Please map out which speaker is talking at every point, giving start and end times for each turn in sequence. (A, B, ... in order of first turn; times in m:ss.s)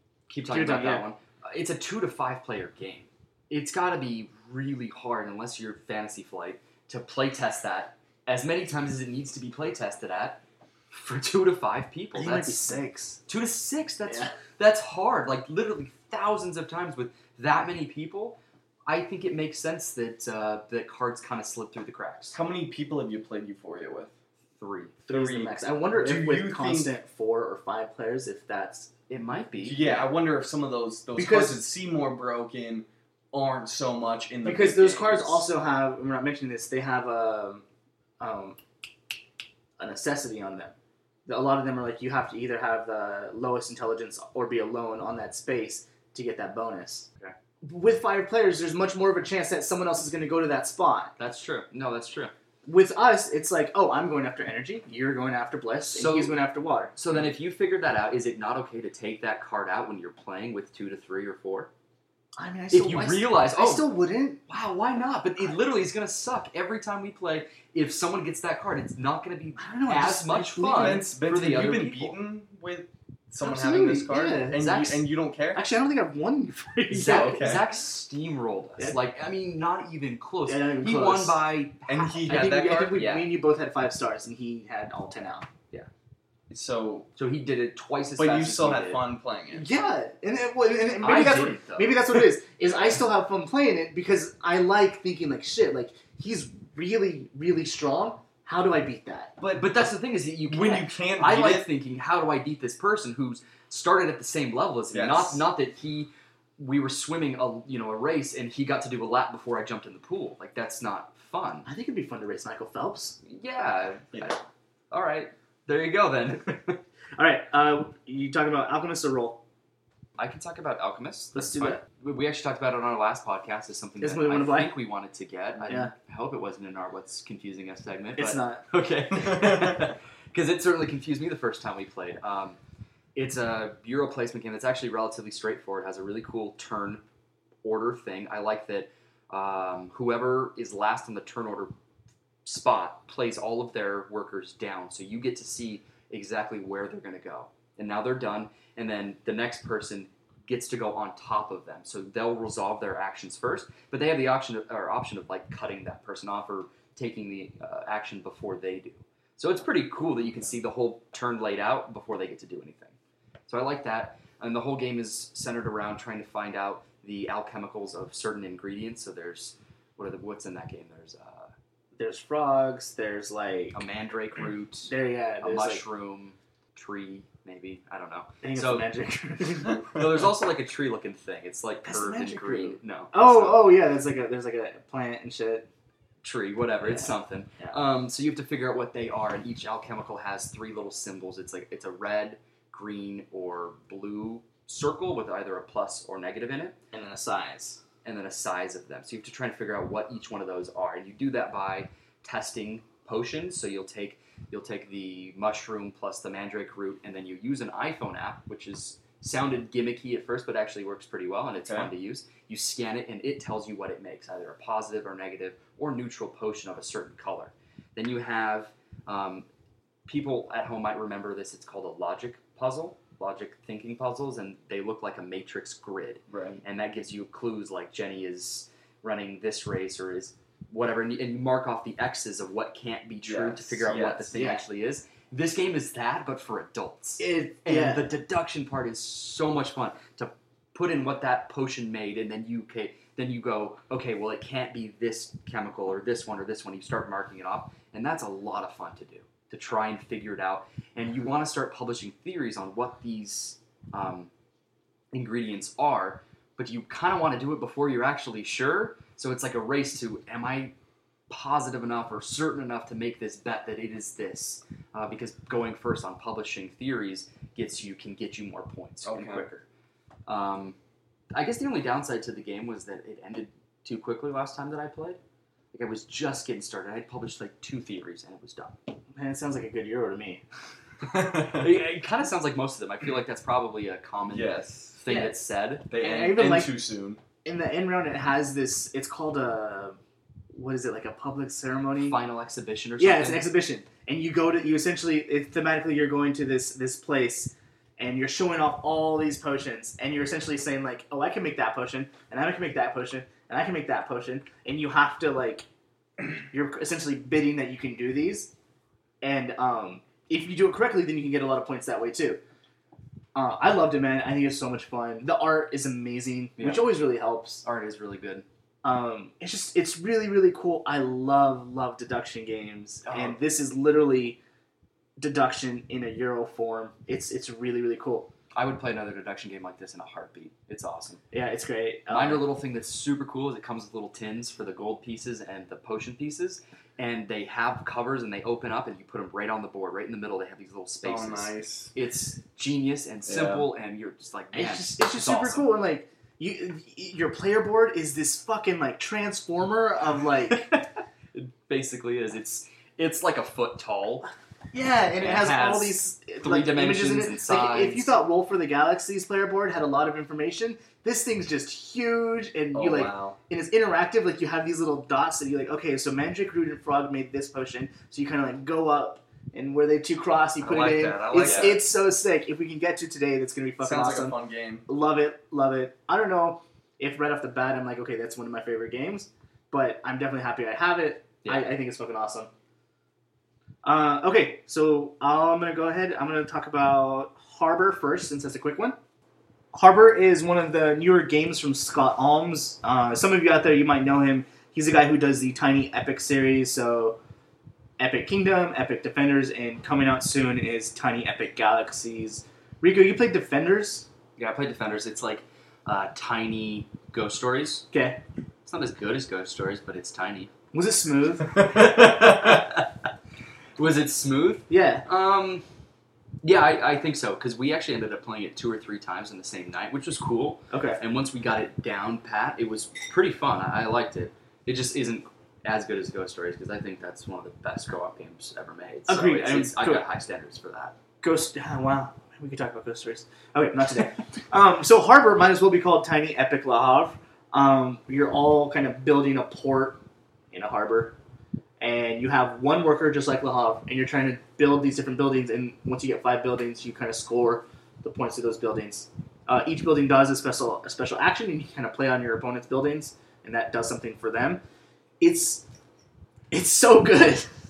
0:00.3-0:12.7 A
0:00.5-0:01.0 B
0:12.2-0:13.2 B
0:13.3-0:22.4 A
0:22.3-0:24.1 C
0:24.6-0:25.0 A
0:25.1-0:28.9 B
0:25.1-0:26.9 C
0:29.1-0:30.0 A
0:29.6-0:35.4 C
0:31.2-0:31.6 B
0:34.4-0:37.6 B
0:38.2-0:38.6 B
0:39.8-0:40.7 B
0:41.3-0:47.1 B
0:47.6-0:51.1 B
0:51.2-0:52.3 A
0:52.7-0:56.9 B
0:55.9-0:56.4 A
0:57.0-1:01.7 A
1:02.4-1:04.4 B
1:02.7-1:03.9 A
1:04.5-1:12.2 A
1:09.6-1:11.1 B
1:10.8-1:15.6 C
1:13.4-1:14.7 B
1:14.6-1:15.0 A
1:15.5-1:17.5 B
1:16.9-1:17.6 C
1:17.0-1:23.3 A
1:20.5-1:21.4 B
1:21.9-1:23.1 C
1:22.3-1:25.5 B
1:26.5-1:27.1 C
1:27.2-1:29.0 A
1:28.2-1:29.6 C
1:29.5-1:39.3 B
1:31.0-1:32.2 A
1:39.4-1:39.8 C
1:39.6-1:51.7 A
1:40.5-1:41.7 C
1:44.9-1:45.4 C
1:51.6-1:53.2 B
1:53.2-1:56.8 A
1:57.2-1:59.4 B
2:00.2-2:12.6 A
2:01.4-2:01.8 B
2:04.0-2:04.8 B
2:05.6-2:05.9 B
2:08.2-2:08.6 B
2:09.2-2:09.9 C
2:13.2-2:17.0 A
2:17.6-2:21.7 A
2:22.4-2:43.0 A
2:43.5-2:51.5 A
2:52.0-2:53.8 B
2:53.7-2:58.9 A
2:54.9-2:55.8 B
2:58.4-3:00.2 B
2:59.7-3:03.7 A
3:01.8-3:05.7 B
3:06.2-3:16.8 A
3:06.8-3:07.8 B
3:16.9-3:17.8 B
3:18.0-3:39.4 A
3:31.6-3:31.9 C
3:40.1-4:14.3 A
3:46.3-3:46.6 C
3:53.2-3:54.3 C
3:54.3-3:54.6 B
3:57.2-3:58.1 B
4:15.1-4:20.7 A
4:21.3-4:29.6 A
4:29.0-4:29.5 C
4:30.3-4:30.8 A
4:31.3-4:35.2 A
4:35.7-4:38.8 A
4:39.2-4:40.4 B
4:41.0-4:41.7 C
4:41.5-4:45.9 A
4:44.3-4:45.0 C
4:45.1-4:45.4 B
4:45.9-4:46.7 B
4:45.9-4:47.2 C
4:47.4-4:50.0 B
4:50.5-4:52.2 B
4:52.0-4:53.4 A
4:53.0-5:05.7 B
5:06.3-5:08.5 B
5:09.2-5:12.4 B
5:13.4-5:17.6 B
5:16.6-5:16.9 A
5:17.6-5:18.4 A
5:18.8-5:24.4 B
5:23.1-5:23.4 A
5:25.2-5:28.3 B
5:28.5-5:31.2 A
5:31.3-5:32.4 B
5:32.1-5:45.6 A
5:41.0-5:41.9 C
5:43.3-5:43.7 C
5:44.5-5:50.7 B
5:50.5-5:54.3 A
5:54.7-6:22.5 B
5:55.2-5:58.2 A
6:02.7-6:03.4 C
6:10.6-6:11.8 C
6:11.4-6:11.7 A
6:13.8-6:14.9 C
6:21.4-6:21.7 A
6:23.8-6:29.0 B
6:29.7-6:37.2 B
6:38.0-6:44.1 B
6:44.4-6:47.9 A
6:47.9-6:48.2 B
6:48.7-6:50.5 A
6:50.7-6:51.6 B
6:51.7-6:52.9 A
6:53.8-6:55.6 A
6:54.7-6:55.0 B
6:56.4-7:10.9 A
7:00.7-7:01.0 B
7:09.1-7:10.1 B
7:11.2-7:20.0 B
7:20.5-7:21.2 B
7:21.8-7:34.6 B
7:35.2-7:35.6 B
7:36.5-7:37.5 B